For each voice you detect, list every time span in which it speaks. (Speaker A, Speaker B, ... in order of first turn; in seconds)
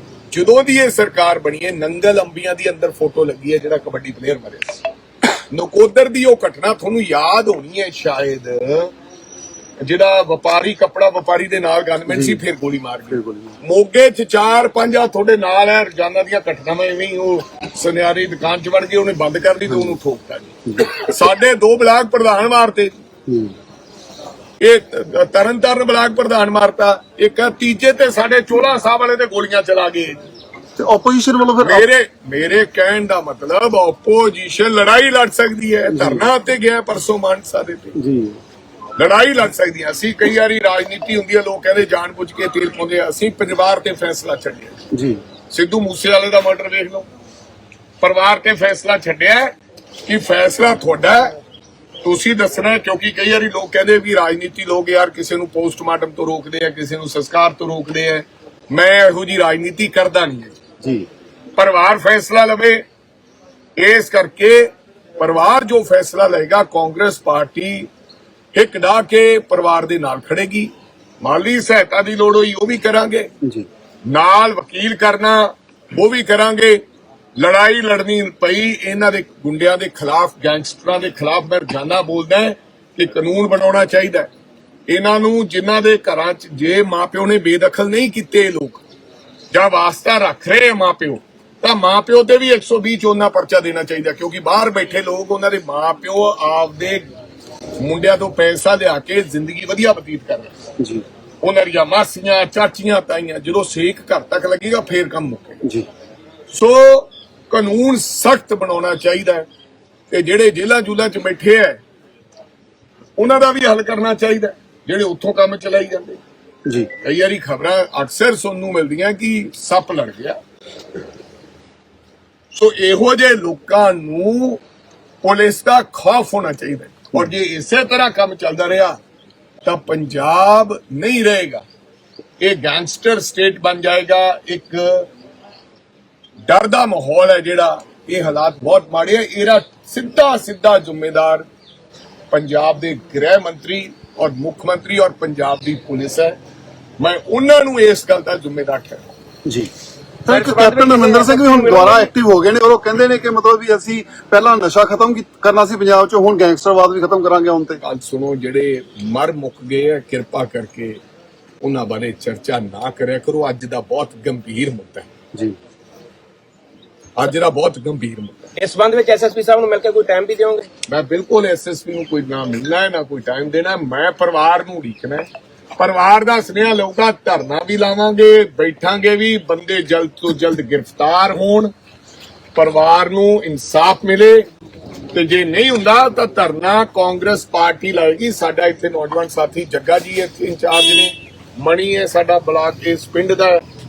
Speaker A: 0.3-4.9, 5.5-8.9, 9.8-22.9, 24.6-30.2, 31.6-38.0, 39.0-44.8, 45.5-47.1, 48.0-49.5, 50.0-51.4, 52.0-60.6, 61.6-62.8, 63.8-67.9, 68.5-73.3, 74.1-76.8, 77.4-84.3, 84.9-88.8, 89.5-97.1, 97.8-100.5, 101.4-105.6, 106.5-109.5, 110.1-111.8, 113.2-116.2, 117.0-120.4, 122.5-124.6, 125.2-129.0, 129.6-131.7, 132.4-135.1, 136.5-141.5, 142.3-146.4, 147.0-149.1, 157.8-161.0, 161.6-165.1, 167.2-168.5, 170.9-175.3, 175.8-181.7, 182.6-184.5, 185.1-193.6
Speaker B: 12.1-12.4, 13.1-13.6, 19.7-20.0, 20.7-21.0, 23.3-23.6, 30.8-31.9, 35.9-36.3, 38.0-38.4, 44.9-45.2, 60.8-61.1, 149.5-149.7, 150.3-157.8
Speaker C: 150.3-152.1, 168.6-170.7